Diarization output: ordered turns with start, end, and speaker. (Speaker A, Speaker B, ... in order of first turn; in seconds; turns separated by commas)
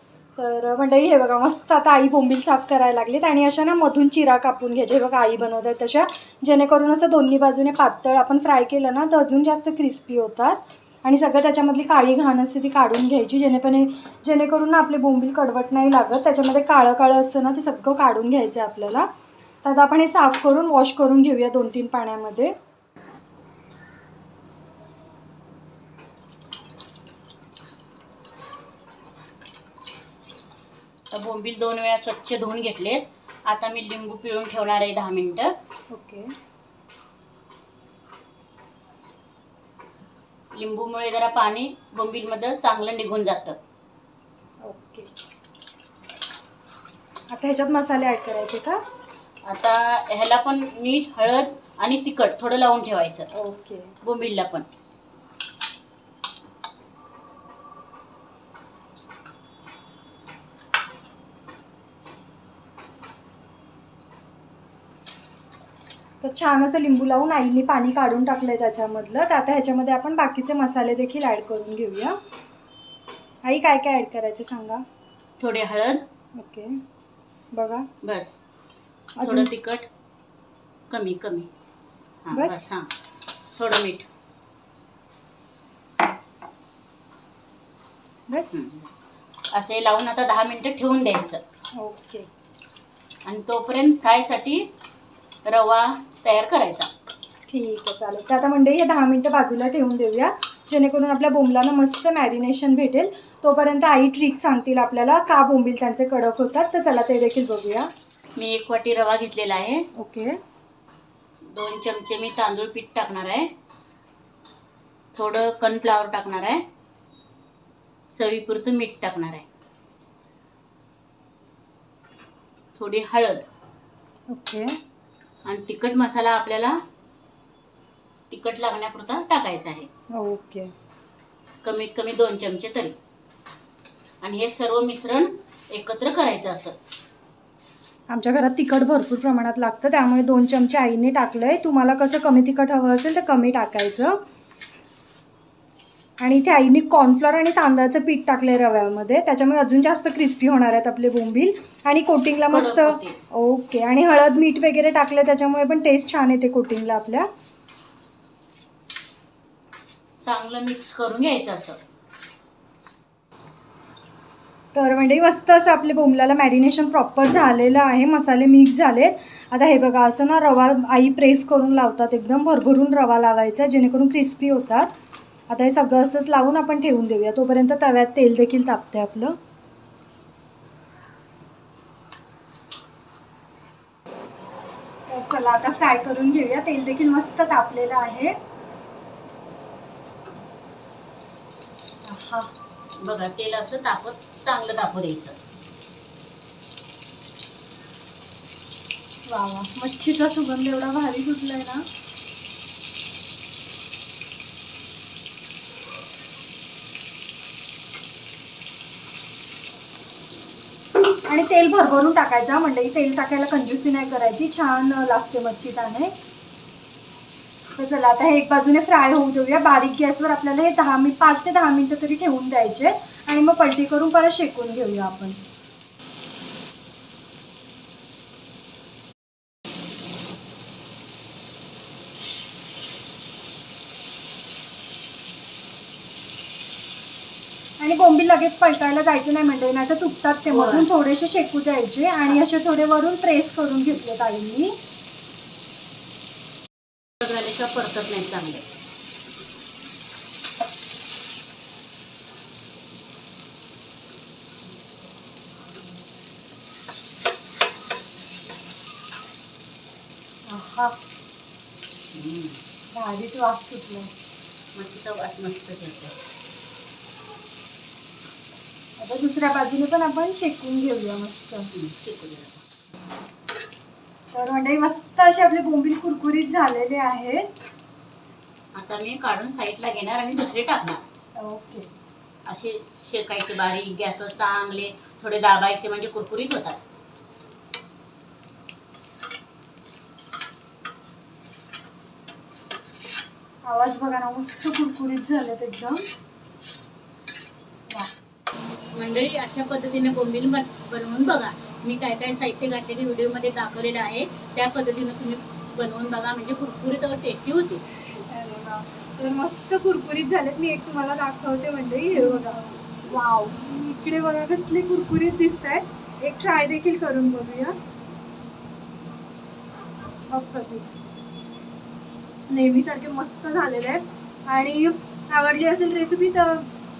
Speaker A: 0.4-19.1, Speaker A: 19.6-22.5, Speaker B: 31.1-35.5, Speaker A: 35.9-36.3, Speaker B: 40.5-43.6, Speaker A: 44.6-45.1, Speaker A: 47.3-48.8, Speaker B: 49.5-53.3, Speaker A: 53.4-53.9, Speaker B: 54.0-54.6, Speaker A: 66.2-72.2, Speaker A: 73.5-74.8, Speaker B: 75.4-76.0, Speaker A: 76.4-76.8, Speaker A: 77.5-77.9, Speaker B: 78.0-78.4, Speaker A: 79.2-79.5, Speaker B: 79.2-79.9, Speaker B: 80.9-81.5, Speaker B: 82.2-82.9, Speaker A: 82.3-82.6, Speaker B: 83.5-84.1, Speaker A: 88.3-88.6, Speaker B: 88.5-88.9, Speaker B: 89.5-91.4, Speaker A: 91.8-92.3, Speaker B: 93.3-94.7, Speaker B: 95.5-96.9, Speaker A: 97.5-107.9, Speaker B: 108.4-109.8, Speaker A: 110.0-110.4, Speaker B: 111.5-113.5, Speaker B: 115.2-116.6, Speaker B: 118.2-119.5, Speaker B: 122.8-123.5, Speaker A: 124.3-124.7, Speaker B: 125.5-126.8, Speaker B: 128.3-129.9, Speaker A: 130.2-130.7, Speaker B: 131.6-132.9, Speaker B: 134.2-136.8, Speaker A: 138.1-144.2, Speaker A: 146.2-157.3, Speaker B: 152.5-153.2, Speaker B: 160.2-161.8, Speaker A: 164.8-174.9, Speaker A: 175.5-179.4, Speaker A: 185.1-188.3, Speaker A: 192.1-192.5, Speaker B: 193.0-195.4, Speaker A: 199.3-201.8, Speaker A: 211.3-216.1, Speaker A: 217.8-225.4, Speaker A: 237.8-244.7, Speaker B: 240.5-240.9, Speaker B: 247.2-248.6, Speaker A: 260.5-261.0, Speaker B: 262.1-262.6, Speaker A: 262.9-264.1, Speaker B: 264.8-266.2, Speaker A: 269.0-271.7, Speaker B: 271.7-272.6, Speaker A: 274.3-277.5, Speaker B: 278.8-281.0, Speaker A: 281.4-281.9, Speaker B: 282.5-286.8, Speaker A: 293.7-296.0, Speaker B: 298.9-307.8, Speaker A: 308.1-317.8, Speaker A: 320.3-320.9, Speaker A: 322.5-326.7